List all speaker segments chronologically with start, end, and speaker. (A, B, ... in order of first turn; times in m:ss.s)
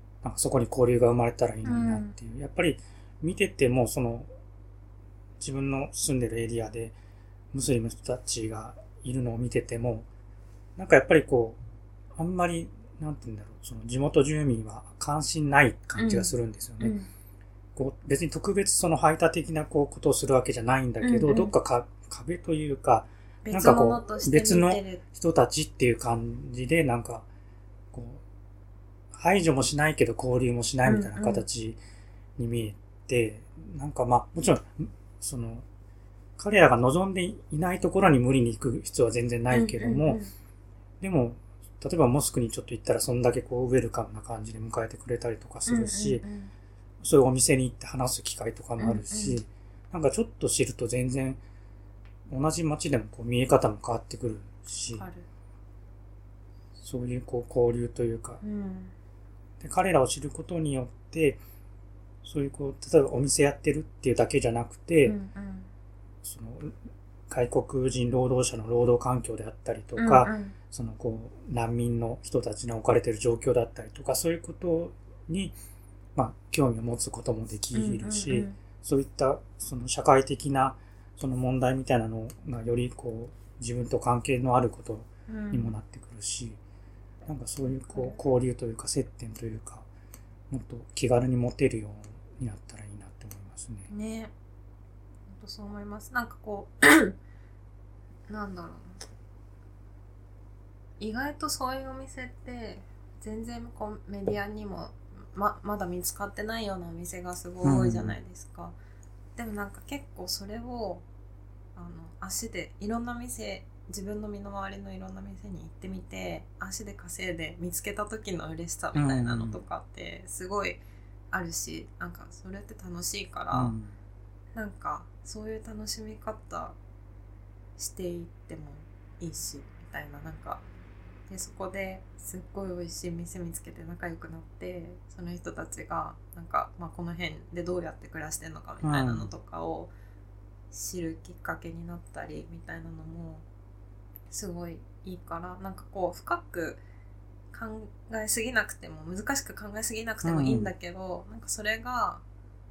0:00.2-0:04.3 A
0:01.6-0:02.1 B
0:05.4-0:07.0 A
0:07.5-0:10.1 A
0:10.8-0:11.6 A
0:12.2-0:17.0 A
0:16.0-0:17.1 B
0:17.8-0:27.3 A
0:21.0-0:21.5 B
0:23.4-0:25.0 B
0:27.9-0:28.2 A
0:29.1-0:31.8 A
0:30.8-0:31.4 B
0:32.4-0:35.6 A
0:36.4-0:40.2 A
0:39.5-0:40.3 B
0:41.0-0:46.3 A
0:45.7-0:46.5 B
0:47.0-0:51.4 A
0:48.8-0:49.4 B
0:52.3-0:55.1 A
0:55.0-0:55.2 B
0:56.8-0:58.4 A
0:58.4-0:58.9 B
0:59.6-1:01.4 A
1:02.2-1:05.2 A
1:05.0-1:05.7 B
1:06.2-1:06.8 A
1:07.3-1:15.6 A
1:10.0-1:10.6 B
1:16.2-1:26.6 A
1:17.7-1:18.6 B
1:25.3-1:25.7 B
1:27.3-1:29.9 A
1:27.9-1:28.2 B
1:30.5-1:33.9 A
1:33.9-1:34.3 B
1:35.3-1:37.2 B
1:38.3-1:39.0 B
1:41.0-1:48.8 B
1:47.6-1:48.2 A
1:49.4-1:51.0 B
1:51.8-2:03.7 B
1:58.9-1:59.6 A
2:03.5-2:03.9 A
2:04.5-2:06.8 B
2:07.8-2:10.6 B
2:11.3-2:19.9 B
2:18.8-2:19.3 A
2:20.7-2:23.4 B
2:24.3-2:26.8 B
2:27.5-2:32.2 B
2:30.2-2:30.7 A